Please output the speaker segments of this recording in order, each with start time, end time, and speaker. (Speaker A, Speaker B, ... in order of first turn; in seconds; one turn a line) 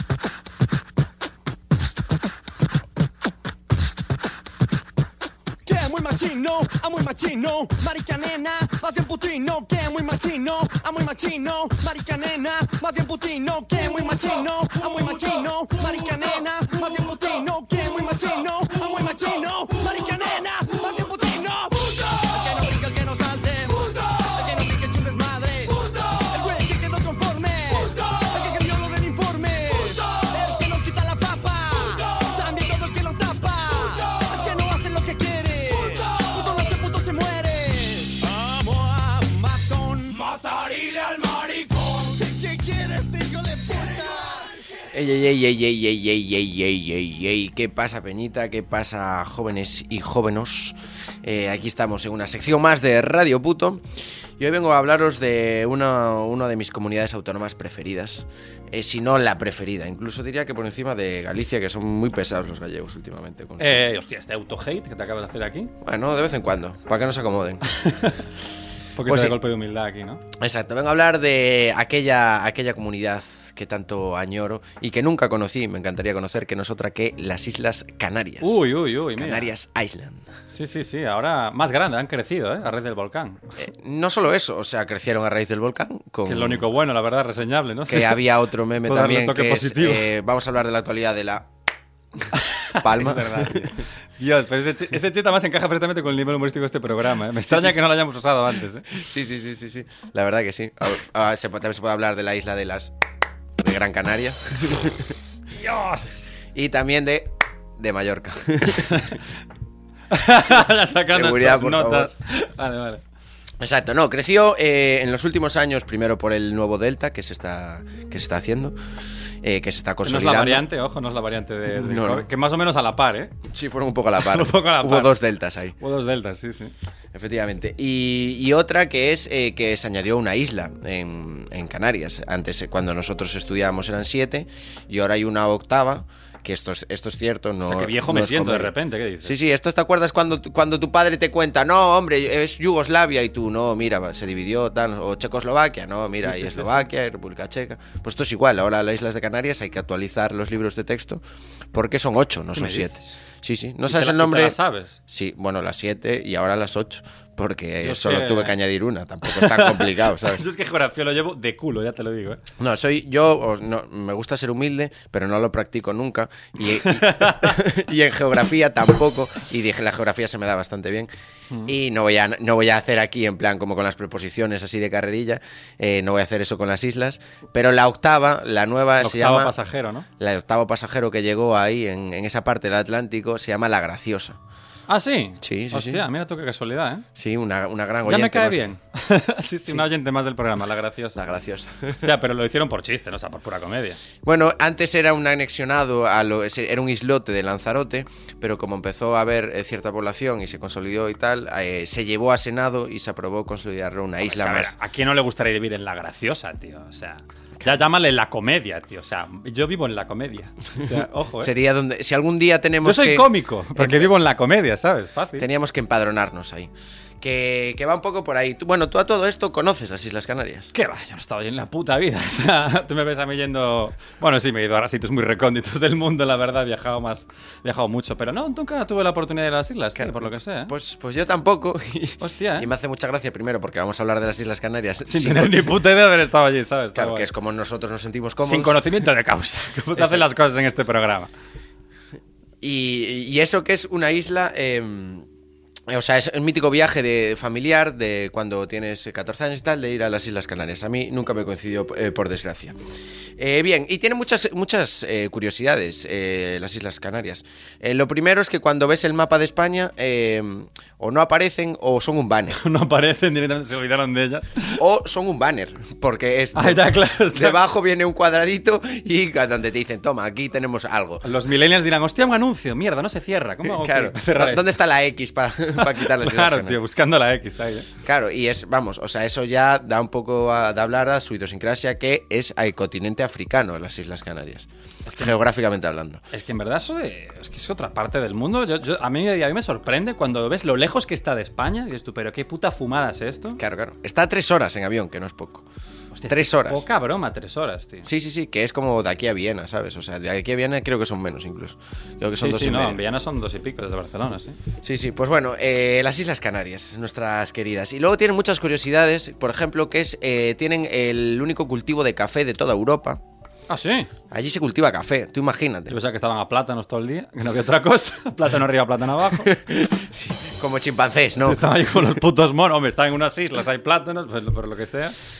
Speaker A: 5.7-44.5
Speaker B: 44.9-53.9
Speaker B: 54.4-63.8
Speaker C: 63.6-65.7
Speaker B: 65.8-67.6
Speaker C: 67.7-68.2
Speaker C: 69.0-70.2
Speaker B: 69.0-69.3
Speaker B: 70.4-80.2
Speaker C: 78.4-79.5
Speaker C: 80.5-83.5
Speaker B: 83.6-86.7
Speaker C: 86.2-88.2
Speaker B: 87.9-91.5
Speaker C: 88.8-90.1
Speaker B: 92.2-93.8
Speaker C: 92.3-98.9
Speaker B: 97.4-97.8
Speaker B: 98.9-102.9
Speaker B: 103.6-105.1
Speaker C: 105.5-106.3
Speaker B: 106.5-109.0
Speaker C: 108.7-109.2
Speaker C: 110.1-113.0
Speaker B: 111.1-112.1
Speaker B: 113.6-118.8
Speaker B: 119.4-120.7
Speaker C: 120.0-123.3
Speaker B: 121.7-122.3
Speaker B: 123.5-125.8
Speaker C: 124.2-125.2
Speaker C: 125.8-126.7
Speaker B: 127.1-151.2
Speaker C: 137.7-139.3
Speaker C: 146.2-146.8
Speaker B: 151.7-160.4
Speaker C: 152.5-153.0
Speaker C: 153.9-155.0
Speaker C: 157.8-158.5
Speaker C: 159.3-162.4
Speaker B: 162.6-171.1
Speaker C: 166.8-167.6
Speaker B: 171.6-179.5
Speaker C: 179.0-180.1
Speaker B: 180.2-184.4
Speaker C: 184.9-187.0
Speaker B: 185.4-186.0
Speaker B: 187.1-188.7
Speaker C: 188.1-191.3
Speaker B: 191.2-192.1
Speaker C: 192.0-194.0
Speaker B: 194.2-204.7
Speaker C: 204.2-211.5
Speaker B: 210.8-214.1
Speaker C: 212.8-215.4
Speaker B: 215.4-220.7
Speaker C: 220.7-230.7
Speaker B: 229.9-235.7
Speaker C: 232.2-232.7
Speaker C: 235.1-237.3
Speaker B: 236.9-238.7
Speaker C: 238.4-241.3
Speaker B: 239.9-240.2
Speaker B: 242.6-245.3
Speaker B: 245.9-252.8
Speaker B: 253.4-262.6
Speaker C: 262.5-264.8
Speaker B: 264.8-271.2
Speaker C: 266.5-267.6
Speaker C: 271.2-274.6
Speaker B: 273.6-276.8
Speaker C: 275.8-277.9
Speaker B: 278.0-286.2
Speaker C: 285.1-285.3
Speaker C: 286.3-293.6
Speaker B: 293.6-295.6
Speaker C: 296.1-298.1
Speaker B: 296.3-296.8
Speaker B: 298.1-303.0
Speaker C: 302.3-304.6
Speaker B: 304.8-313.2
Speaker C: 313.7-314.1
Speaker B: 314.3-315.9
Speaker C: 315.9-319.5
Speaker B: 319.3-321.6
Speaker C: 321.4-325.1